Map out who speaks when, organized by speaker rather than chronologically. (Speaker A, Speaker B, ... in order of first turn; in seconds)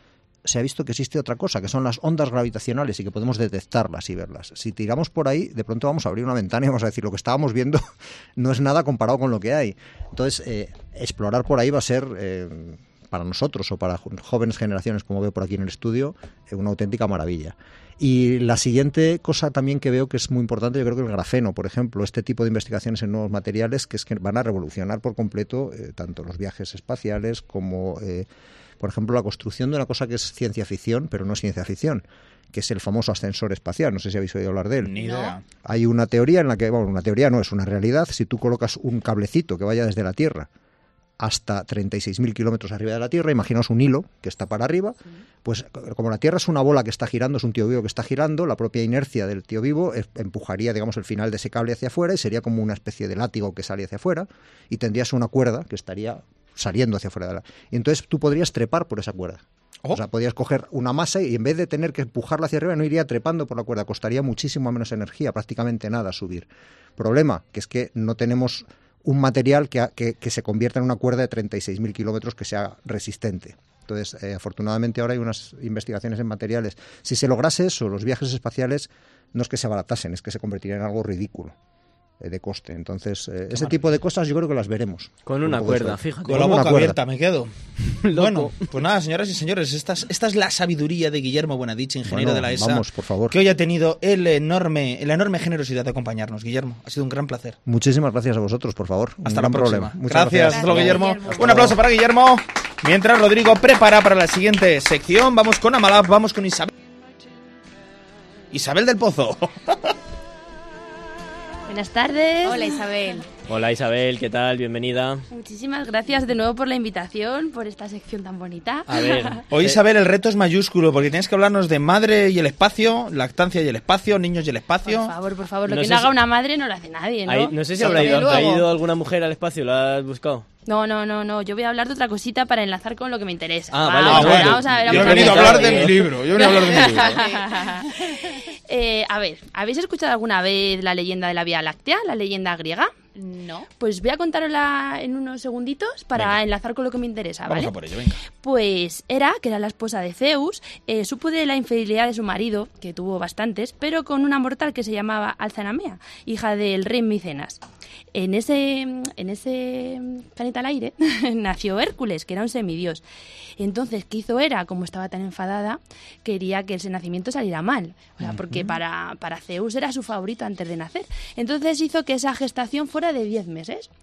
Speaker A: 0.5-7.8, 8.4-28.3, 28.8-35.0, 35.6-40.5, 41.2-81.5, 82.2-87.0, 92.0-93.4, 97.7-101.8
Speaker B: 34.8-35.4, 86.3-87.5, 88.1-97.6, 99.2-106.7, 108.5-109.9, 119.5-125.1, 127.8-128.3, 134.1-137.2, 146.1-146.4, 147.5-148.2, 168.2-168.8
Speaker C: 35.0-35.3, 100.5-101.6, 112.4-113.3, 127.8-128.6, 136.7-137.4, 143.1-143.7
Speaker D: 85.3-86.5, 88.0-88.6, 113.5-115.2, 118.9-119.8, 125.7-126.1, 127.3-130.5, 133.7-136.0
Speaker E: 111.7-112.8, 115.3-119.4, 124.9-128.5, 130.7-138.2, 138.7-142.9, 143.8-147.7, 148.3-157.6, 158.1-163.0, 163.6-173.9